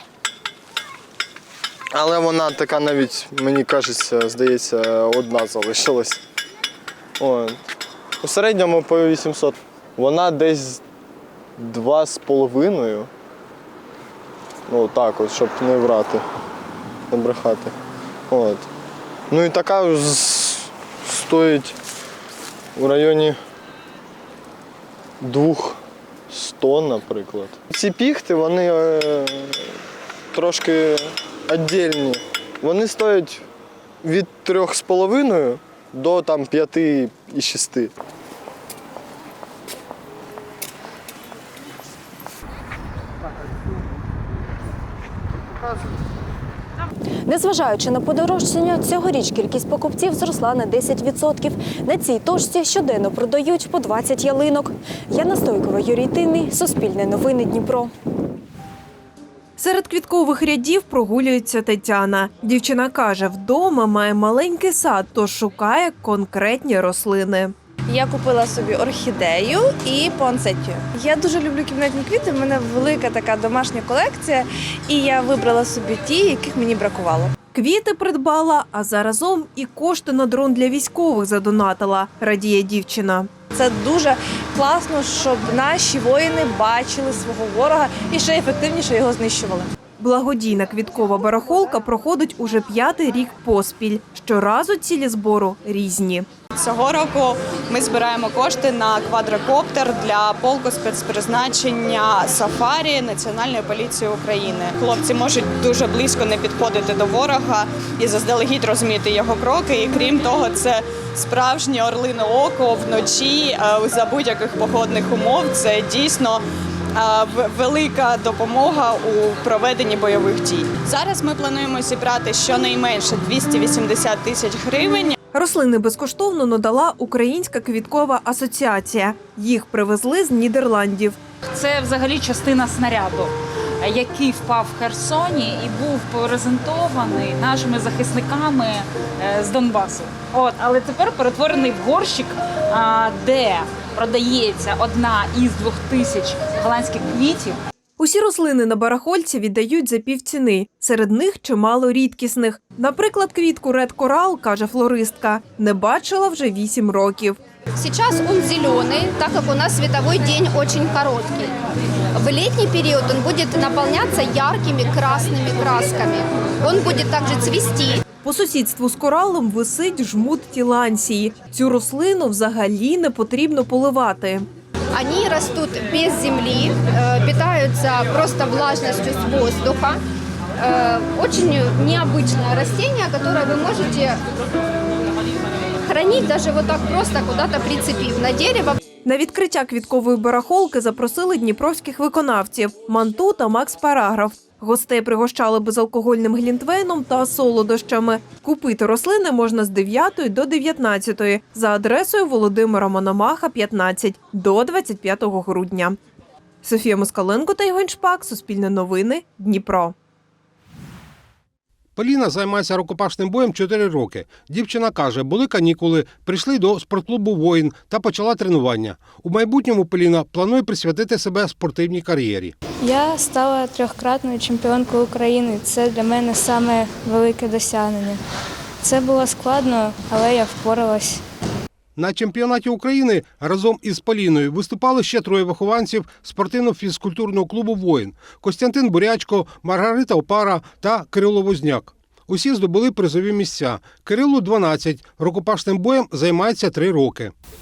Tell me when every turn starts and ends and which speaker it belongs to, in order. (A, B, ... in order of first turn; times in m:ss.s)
0:01.9-0:06.2 A
0:07.2-0:07.6 A
0:08.2-0:10.8 A
0:11.6-0:13.1 A
0:14.7-0:16.2 A
0:17.1-0:17.7 A
0:18.3-0:18.7 A
0:19.3-0:21.8 A
0:22.8-0:23.4 A
0:25.2-0:29.7 A
0:30.3-0:33.4 A
0:34.0-0:37.9 A
0:47.2-0:57.9 B
0:59.6-1:07.5 C
1:07.9-1:17.3 D
1:17.5-1:23.3 C
1:23.6-1:29.7 D
1:30.0-1:36.3 C
1:36.6-1:56.4 E
1:57.0-2:05.1 E
2:05.3-2:11.2 C
2:11.5-2:27.6 F
2:28.0-2:37.4 C
2:37.8-2:41.5 G
2:42.1-2:48.0 G
2:48.2-2:54.4 C
2:54.9-3:00.0 G
3:00.6-3:04.2 G
3:05.9-3:08.8 G
3:09.0-3:26.0 C
3:26.6-3:29.9 C
3:32.0-3:42.5 H
3:42.8-3:48.2 I
3:48.8-3:51.2 I
3:52.0-4:07.3 H